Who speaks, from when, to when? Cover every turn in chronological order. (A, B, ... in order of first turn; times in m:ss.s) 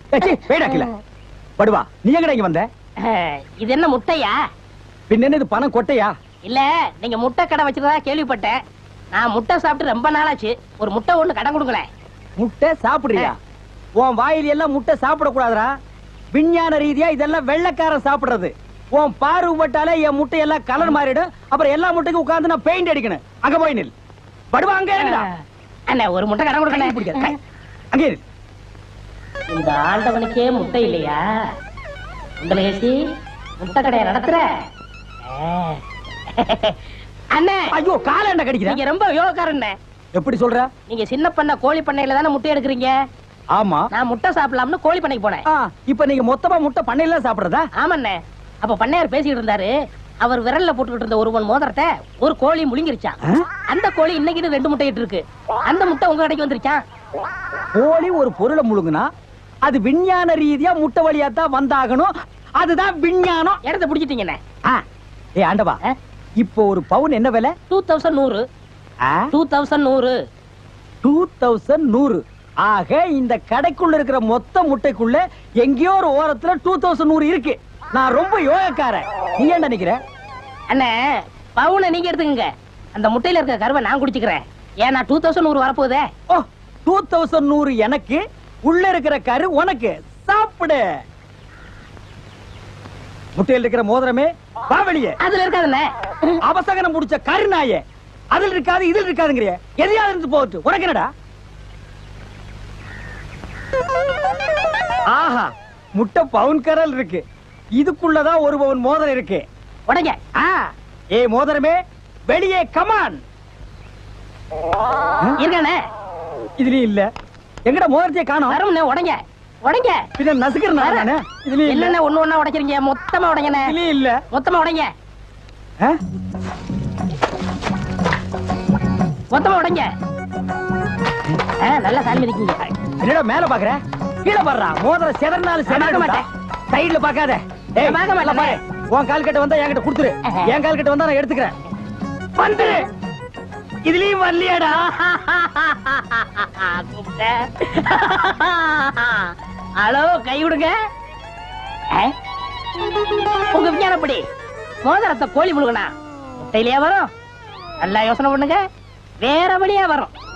0:00.1-0:00.9 A
0:00.2-0:00.8 B
0:01.6-0:02.7 A
0:03.0-0:04.4 B
0:05.1-0:06.1 A
0:06.5-0:08.6 B
0:09.1-0:11.8 B
0:12.4-0:13.4 A
0:14.0-0:15.7 A
0:16.3-0:23.9 A
0:24.5-0:25.3 A
0:25.0-0:27.4 B
0:26.7-0:27.4 A
0:27.9-0:28.2 A
0:29.5-0:31.4 B
0:32.4-0:33.0 B
0:33.6-0:34.4 B
0:35.2-0:36.8 B
0:37.4-0:37.7 B
0:37.7-0:38.8 A
0:38.6-0:39.8 B
0:40.2-0:40.7 A
0:40.9-0:42.9 B
0:43.5-0:43.9 A
0:43.9-0:45.4 B
0:45.5-0:47.7 A
0:47.8-0:53.2 B
0:53.7-0:56.8 B
0:57.8-0:59.1 A
0:59.6-1:03.6 A
1:03.6-1:04.4 B
1:05.4-1:05.8 A
1:06.4-1:07.5 A
1:07.7-1:08.4 B
1:09.0-1:09.3 A
1:09.3-1:10.2 B
1:11.0-1:20.0 A
1:21.6-1:26.0 B
1:26.3-1:30.8 A
1:33.4-1:35.2 A
1:35.2-1:36.4 B
1:36.4-1:37.8 A
1:38.3-1:41.1 A
1:45.1-1:47.2 A
1:47.8-1:49.4 A
1:49.9-1:50.3 B
1:51.1-1:51.8 A
1:52.3-1:53.2 A
1:55.4-1:55.8 B
1:56.6-1:57.1 A
1:57.7-1:58.6 A
1:58.5-2:00.0 B
2:00.2-2:02.0 A
2:00.8-2:01.1 B
2:01.7-2:03.8 B
2:03.7-2:04.2 A
2:04.3-2:04.9 B
2:09.3-2:09.9 B
2:11.6-2:12.6 B
2:12.9-2:21.6 A
2:15.7-2:16.2 B
2:17.8-2:18.6 B
2:20.3-2:20.5 B
2:22.4-2:22.8 A
2:23.8-2:24.9 A
2:24.8-2:30.8 B
2:33.5-2:34.2 B
2:34.8-2:37.1 B
2:37.8-2:38.6 B
2:39.2-2:40.1 B